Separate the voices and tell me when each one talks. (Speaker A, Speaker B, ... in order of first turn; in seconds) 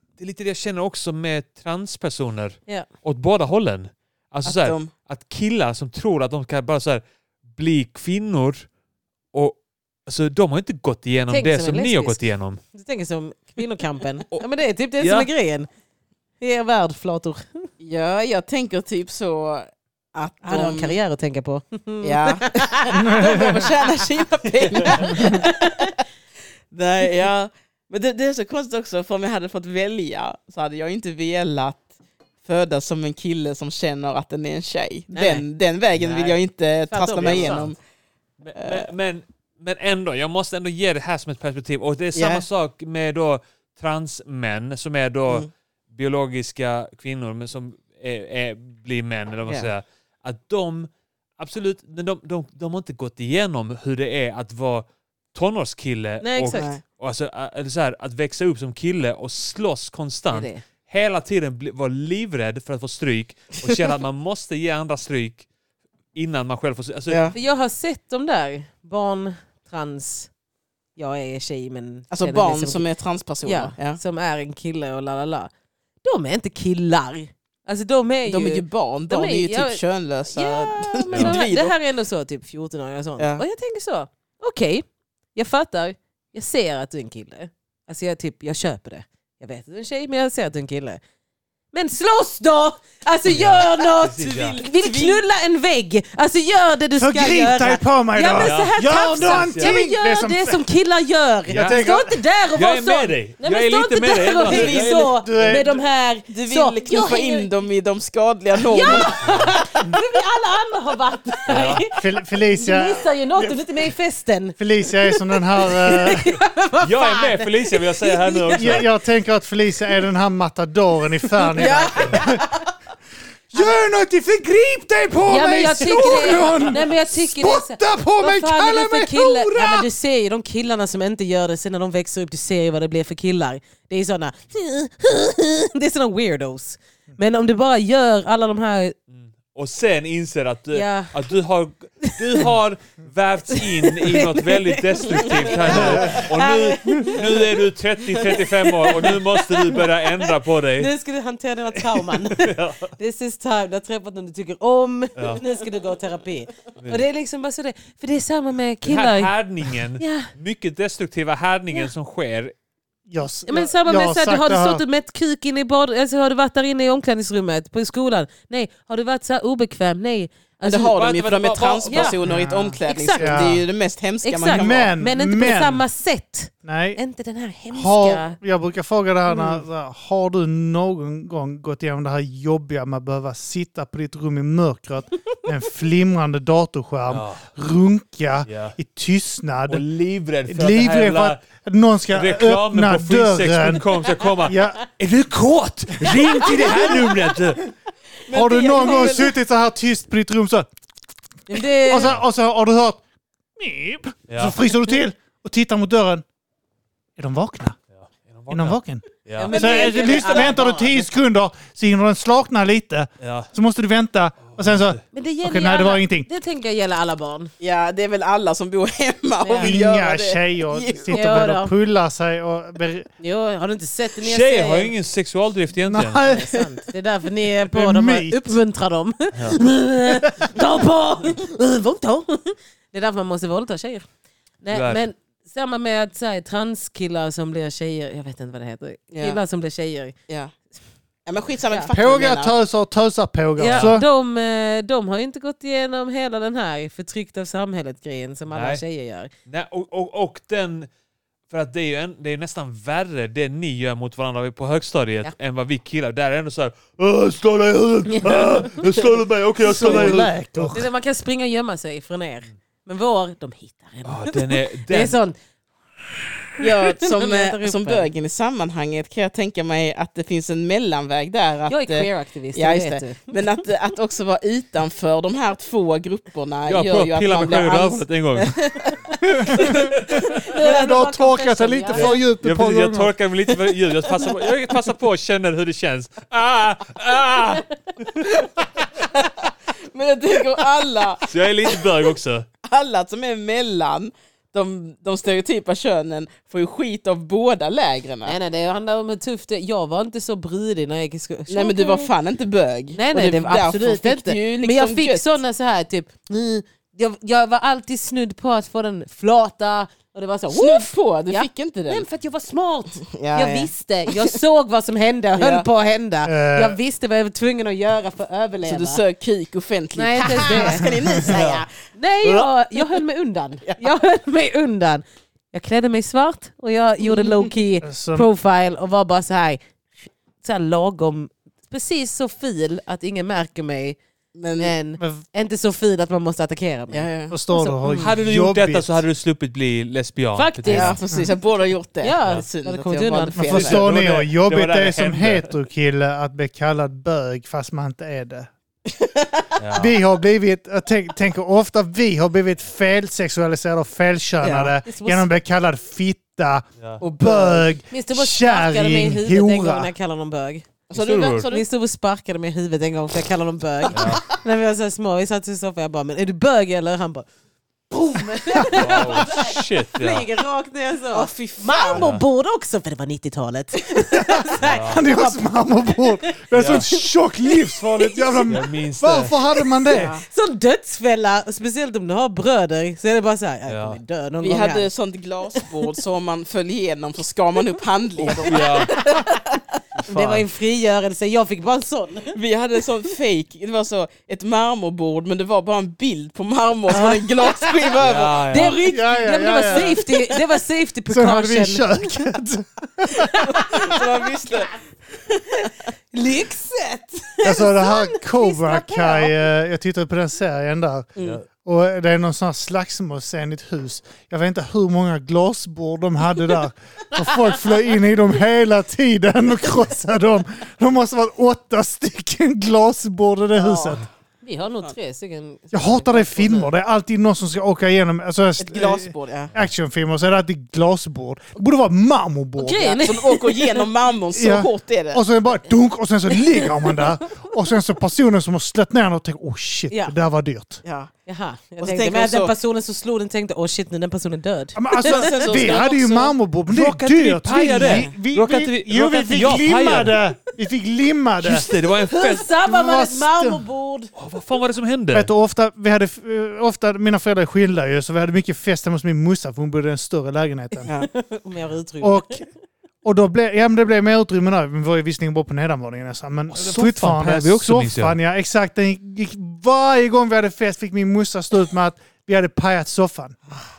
Speaker A: 0.2-7.0, 7.5-8.7, 9.3-12.6, 15.0-15.3, 24.7-25.0, 35.9-36.4, 37.2-37.7, 38.4-65.5, 66.1-67.3, 81.1-81.3, 93.2-94.6, 98.4-99.7, 101.5-101.8, 102.5-105.2, 109.2-109.5, 111.5-111.8, 116.8-118.9, 126.3-126.6, 139.1-150.9, 151.8-152.9, 158.8-162.5, 170.9-172.2, 187.1-187.4, 188.4-188.8, 189.7-191.4, 192.1-197.6, 204.3-204.6, 208.0-209.5, 213.2-213.5, 214.4-215.0, 224.2-226.2, 234.7-235.0, 243.7-243.9, 248.5-248.8, 249.5-250.9, 251.5-260.8, 264.0-265.1, 276.7-278.6, 279.5-280.3, 281.9-288.2, 291.2-292.4, 321.3-321.6, 338.0-341.0, 343.5-345.5, 349.6-349.9, 360.9-361.5, 363.9-364.2, 368.7-370.2, 371.9-372.2, 374.6-375.0, 376.5-376.8, 378.5-379.3, 383.7-384.0, 388.2-388.9, 390.0-390.4, 398.0-398.8, 411.2-411.4, 446.7-450.2, 451.4-452.5, 454.1-455.3, 466.5-468.1
Speaker B: 4.4-4.9, 17.8-21.0, 22.0-25.6, 26.7-31.9, 32.4-37.8, 38.6-38.9, 42.1-42.4, 56.5-56.8, 67.1-67.3, 72.1-74.0, 78.2-81.7, 83.2-83.4, 94.2-95.2, 104.4-105.1, 106.3-109.6, 121.6-122.4, 170.6-174.9, 198.3-199.3, 209.5-210.5, 217.6-221.3, 239.1-239.4, 240.3-240.5, 241.2-242.5, 266.6-279.9, 288.9-292.1, 292.6-298.4, 301.5-305.4, 310.5-312.1, 313.1-314.3, 315.4-315.7, 318.6-321.7, 322.2-323.0, 334.3-334.7, 336.9-337.4, 340.7-343.9, 348.9-349.5, 354.4-354.7, 357.0-357.8, 360.9-361.6, 363.9-364.2, 371.1-372.0, 379.9-380.2, 384.4-389.6, 392.3-399.1, 399.6-400.4, 403.2-405.7, 423.6-424.0, 428.6-429.5, 432.8-435.2, 440.8-441.1, 441.8-442.5, 445.0-446.3
Speaker C: 11.3-12.2, 12.7-15.7, 16.4-17.7, 20.4-23.6, 24.8-25.9, 35.1-35.4, 36.9-37.7, 56.2-56.7, 60.3-60.6, 67.3-70.3, 71.0-72.8, 73.4-75.5, 76.0-91.0, 91.7-107.5, 108.6-112.0, 112.5-118.8, 121.4-122.3, 125.3-138.9, 140.7-141.2, 142.0-142.4, 143.5-147.6, 148.1-159.3, 159.9-160.3, 163.5-170.9, 171.9-172.2, 172.8-173.5, 174.2-178.4, 201.5-202.1, 209.4-211.1, 215.1-217.5, 219.4-219.7, 221.1-221.7, 223.2-224.9, 226.2-234.0, 234.6-240.1, 243.6-249.3, 258.1-258.6, 260.7-265.4, 266.8-268.1, 271.7-273.3, 279.5-282.2, 298.2-302.1, 302.9-319.0, 319.9-320.9, 321.9-329.6, 330.4-334.0, 334.6-338.1, 340.4-341.0, 342.0-343.6, 354.8-355.2, 357.9-360.6, 361.5-367.3, 367.9-378.5, 379.9-384.9, 388.4-389.4, 390.1-392.4, 396.9-398.0, 398.5-401.9, 403.2-403.9, 405.6-409.4, 424.4-426.7, 432.6-433.9, 439.9-440.1, 441.2-445.8, 447.8-448.1, 452.1-454.1, 460.8-462.4
Speaker D: 22.9-23.6, 97.0-100.7, 101.5-102.2, 105.1-105.8, 111.9-113.5, 114.6-116.4, 118.5-122.4, 123.5-129.9, 145.8-146.1, 163.1-164.8, 172.2-173.6, 174.5-175.8, 176.6-177.0, 177.7-189.8, 190.5-193.9, 194.4-194.8, 196.1-197.0, 198.3-200.7, 201.8-203.0, 203.6-206.2, 207.2-207.8, 208.5-216.3, 219.6-223.1, 225.8-226.5, 227.7-228.6, 230.2-230.5, 241.9-244.0, 259.6-260.9, 279.2-283.1, 316.2-316.8, 320.4-321.4, 327.8-328.3, 335.0-335.2, 337.3-339.0, 343.4-348.5, 349.7-359.9, 368.5-369.0, 374.1-380.1, 398.9-400.0, 401.1-403.9, 407.4-424.0, 425.7-432.9, 434.3-440.8, 444.7-451.6, 452.6-453.6, 455.1-460.9, 462.0-462.4, 463.0-473.4